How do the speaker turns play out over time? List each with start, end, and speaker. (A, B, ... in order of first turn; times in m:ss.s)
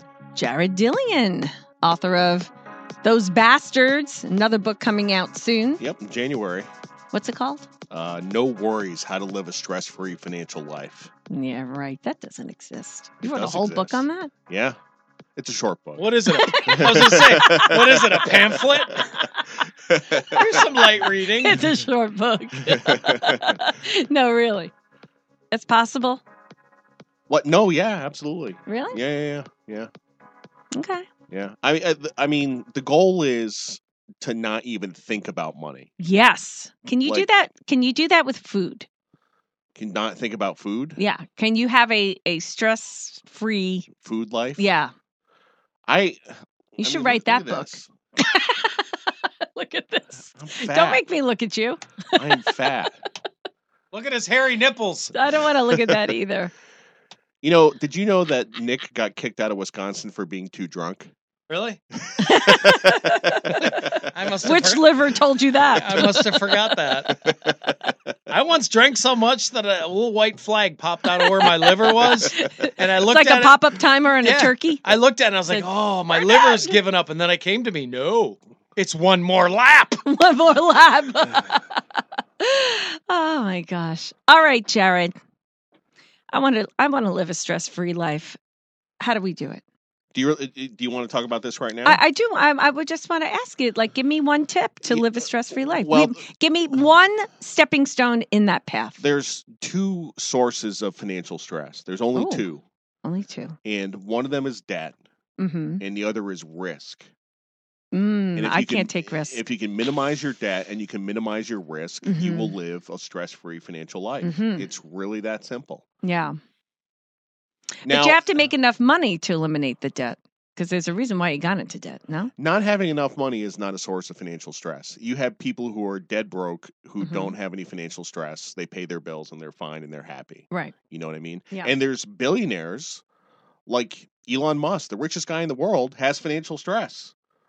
0:00.3-0:02.5 A
0:03.0-0:05.8 A
0:05.8-0:06.7 B
0:07.1-0:07.7 A
0:07.9-0:11.1 B
0:11.3-0:14.3 A
0:13.2-0:14.8 B
0:15.4-0:16.0 B
0:16.0-0:19.0 C
0:16.2-0:18.3 A
0:16.6-0:19.2 B
0:18.9-0:19.4 A
0:19.9-0:20.4 B
0:20.3-0:24.7 A
0:20.3-0:21.8 C
0:22.6-0:23.6 B
0:25.5-0:26.2 A
0:27.3-0:29.9 B
0:28.7-0:29.0 A
0:30.7-0:31.1 A
0:31.3-0:35.9 B
0:36.0-0:38.9 A
0:39.8-0:41.0 B
0:41.0-0:43.9 A
0:44.0-0:44.7 B
0:44.6-0:44.9 A
0:45.9-0:47.9 B
0:46.8-0:52.6 A
0:50.3-0:51.0 B
0:52.1-0:53.0 B
0:53.9-0:55.1 C
0:55.1-0:56.5 A
0:55.7-0:56.1 B
0:57.4-1:01.1 B
1:01.5-1:01.8 C
1:01.9-1:04.0 B
1:02.2-1:06.2 A
1:04.0-1:04.9 C
1:05.8-1:07.3 C
1:05.9-1:06.2 B
1:07.0-1:08.0 B
1:08.3-1:13.6 C
1:11.2-1:14.8 A
1:14.2-1:20.0 C
1:15.5-1:16.8 A
1:20.0-1:21.8 A
1:22.4-1:25.1 A
1:26.3-1:28.4 A
1:29.0-1:29.6 A
1:30.1-1:32.0 B
1:31.8-1:39.0 A
1:34.8-1:36.2 B
1:39.0-1:42.6 B
1:42.1-1:42.5 A
1:43.0-1:43.6 A
1:43.6-1:45.0 B
1:45.4-1:45.8 A
1:45.8-1:47.1 B
1:47.9-1:49.4 A
1:48.4-1:55.8 B
1:52.0-1:52.6 A
1:54.2-1:54.7 A
1:56.0-1:56.4 A
1:57.8-1:58.4 B
1:57.8-2:02.3 A
2:02.4-2:13.0 B
2:07.0-2:07.3 A
2:13.7-2:17.1 B